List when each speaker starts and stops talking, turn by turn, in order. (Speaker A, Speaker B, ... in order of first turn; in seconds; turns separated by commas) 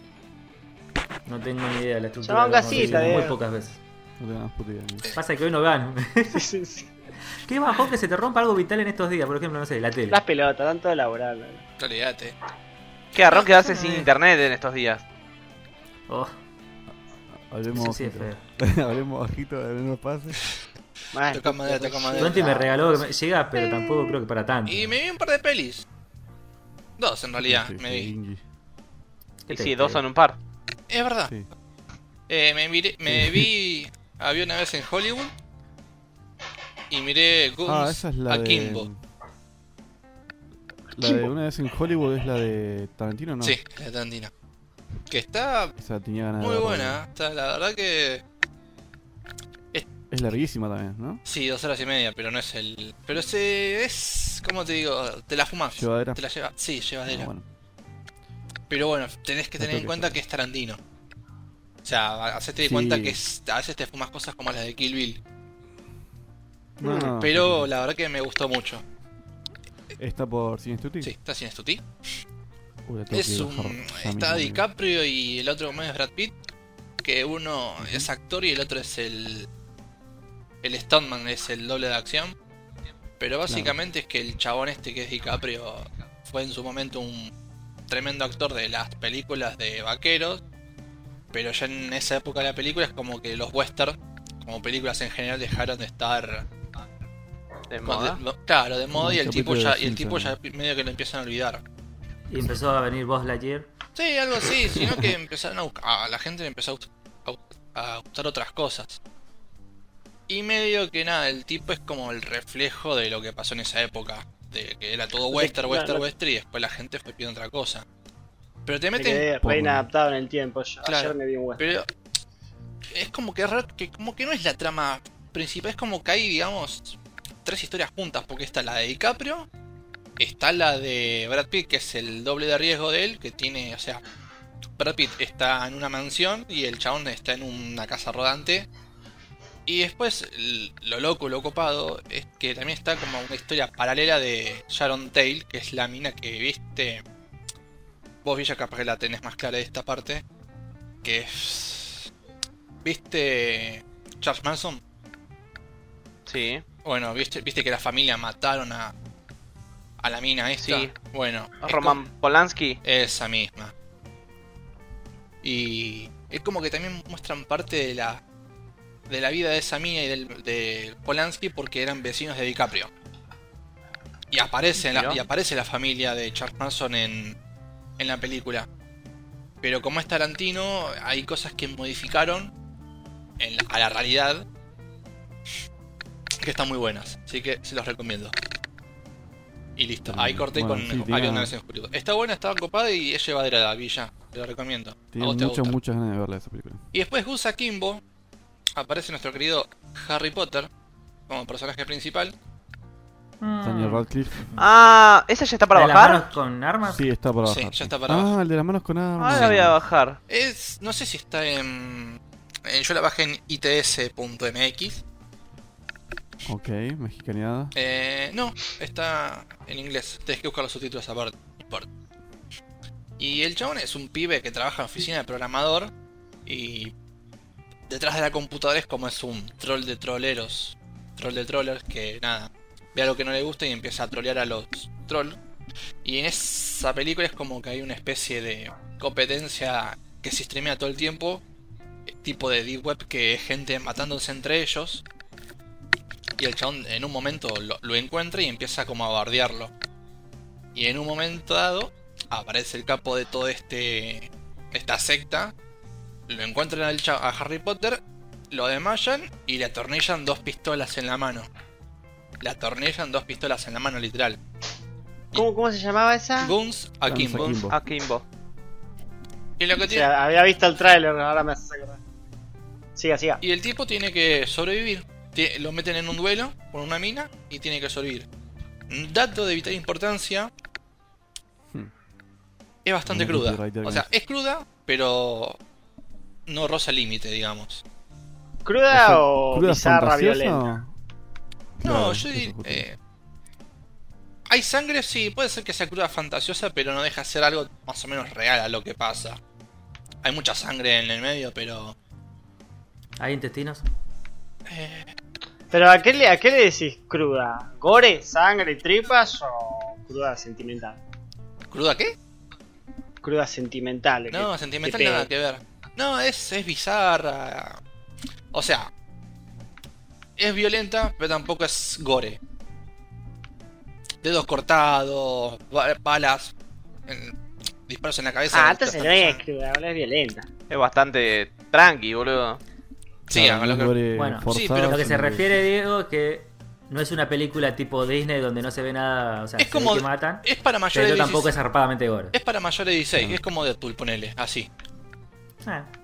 Speaker A: 1.2-3.8, Speaker B: 2.2-3.4, Speaker C: 2.7-3.4, Speaker C: 4.2-5.1, Speaker A: 5.1-6.4, Speaker B: 6.3-6.9, Speaker A: 7.4-10.2, Speaker B: 10.1-11.6, Speaker D: 11.8-12.3, Speaker E: 13.1-15.0, Speaker A: 13.6-14.1, Speaker A: 16.1-16.3, Speaker C: 17.3-20.5, Speaker A: 17.7-18.4, Speaker B: 21.1-23.0, Speaker D: 21.3-22.6, Speaker A: 22.2-24.9, Speaker B: 23.6-24.2, Speaker D: 24.6-25.8, Speaker D: 27.0-28.1, Speaker C: 27.4-28.4, Speaker A: 29.5-30.0, Speaker E: 29.5-30.4, Speaker D: 30.9-31.3, Speaker D: 32.3-35.3, Speaker C: 33.1-33.5, Speaker D: 36.9-38.9, Speaker C: 37.6-39.0, Speaker C: 40.9-43.6, Speaker D: 43.4-44.3, Speaker D: 45.1-45.7, Speaker C: 45.8-47.0, Speaker D: 46.4-48.2, Speaker C: 50.1-51.2, Speaker D: 51.2-57.3, Speaker C: 55.7-56.2, Speaker C: 57.1-57.5, Speaker D: 58.7-60.8, Speaker C: 59.6-60.2, Speaker D: 61.8-65.2, Speaker C: 62.6-63.2, Speaker C: 66.8-67.7, Speaker B: 66.8-67.1, Speaker D: 66.9-68.8, Speaker C: 70.0-71.1, Speaker D: 71.0-71.8, Speaker C: 72.8-74.6, Speaker D: 73.1-76.3, Speaker D: 77.0-79.5, Speaker C: 77.8-78.1, Speaker D: 80.6-82.3, Speaker D: 83.2-87.3, Speaker C: 83.5-83.8, Speaker D: 87.9-90.4, Speaker D: 91.3-96.5, Speaker E: 97.7-98.2, Speaker D: 97.8-101.6, Speaker C: 98.9-100.3, Speaker A: 102.3-103.7, Speaker D: 103.9-109.0, Speaker D: 110.3-117.8, Speaker B: 115.3-116.0, Speaker D: 118.7-119.3, Speaker B: 119.0-121.8, Speaker C: 119.4-119.8, Speaker D: 120.8-121.9, Speaker D: 122.9-129.5, Speaker D: 130.2-134.0, Speaker D: 134.8-138.7, Speaker D: 139.7-147.0, Speaker D: 148.2-150.2, Speaker D: 151.0-152.1, Speaker D: 152.8-154.8, Speaker E: 156.2-156.6, Speaker D: 156.8-158.9, Speaker D: 160.0-162.0, Speaker E: 160.6-160.9, Speaker E: 161.6-162.8, Speaker D: 162.8-163.7, Speaker D: 165.4-168.2, Speaker D: 169.1-172.9, Speaker D: 174.3-177.3, Speaker E: 174.8-175.2, Speaker D: 178.0-178.7, Speaker D: 179.6-182.5, Speaker D: 183.4-184.4, Speaker D: 186.4-188.3, Speaker D: 189.8-195.7, Speaker C: 190.1-191.5, Speaker C: 195.1-196.8, Speaker D: 196.9-198.0, Speaker D: 198.8-200.7, Speaker D: 201.3-202.3, Speaker A: 203.4-204.1, Speaker C: 203.6-204.6, Speaker E: 204.6-206.2, Speaker A: 205.7-207.0, Speaker C: 206.9-209.8, Speaker D: 207.4-208.3, Speaker E: 209.2-210.2, Speaker D: 209.3-209.5, Speaker D: 210.3-215.0, Speaker C: 216.4-217.7, Speaker D: 217.7-221.9, Speaker D: 223.2-225.9, Speaker D: 226.4-226.9, Speaker D: 227.9-235.4, Speaker D: 236.0-241.4, Speaker D: 242.1-245.0, Speaker D: 246.4-249.7, Speaker D: 250.7-255.5, Speaker D: 256.3-258.0, Speaker D: 258.5-261.5, Speaker D: 262.4-264.4, Speaker B: 265.3-266.5, Speaker D: 266.4-267.6, Speaker C: 267.1-267.8, Speaker E: 267.7-268.2, Speaker D: 269.6-270.1, Speaker B: 269.8-272.0, Speaker B: 272.9-273.4, Speaker D: 273.4-278.2, Speaker D: 278.9-280.5, Speaker D: 282.8-285.6, Speaker C: 283.1-284.1, Speaker D: 286.5-287.8, Speaker B: 288.6-290.6, Speaker C: 288.9-290.9, Speaker C: 291.8-292.8, Speaker D: 291.8-292.9, Speaker D: 294.5-299.4, Speaker D: 300.2-301.9, Speaker A: 303.2-303.8, Speaker D: 304.7-305.1, Speaker B: 305.7-311.0, Speaker D: 311.7-312.1, Speaker B: 313.2-315.3, Speaker D: 314.3-317.8, Speaker D: 318.5-318.9, Speaker D: 320.4-322.4, Speaker D: 324.2-326.5, Speaker D: 327.1-327.3, Speaker D: 327.9-329.4, Speaker B: 328.5-330.5, Speaker E: 330.7-332.6, Speaker D: 333.3-333.9, Speaker C: 333.3-335.6, Speaker A: 334.1-342.3, Speaker D: 334.5-335.0, Speaker D: 339.6-341.5, Speaker D: 342.3-344.7, Speaker C: 343.1-343.4, Speaker A: 345.6-345.9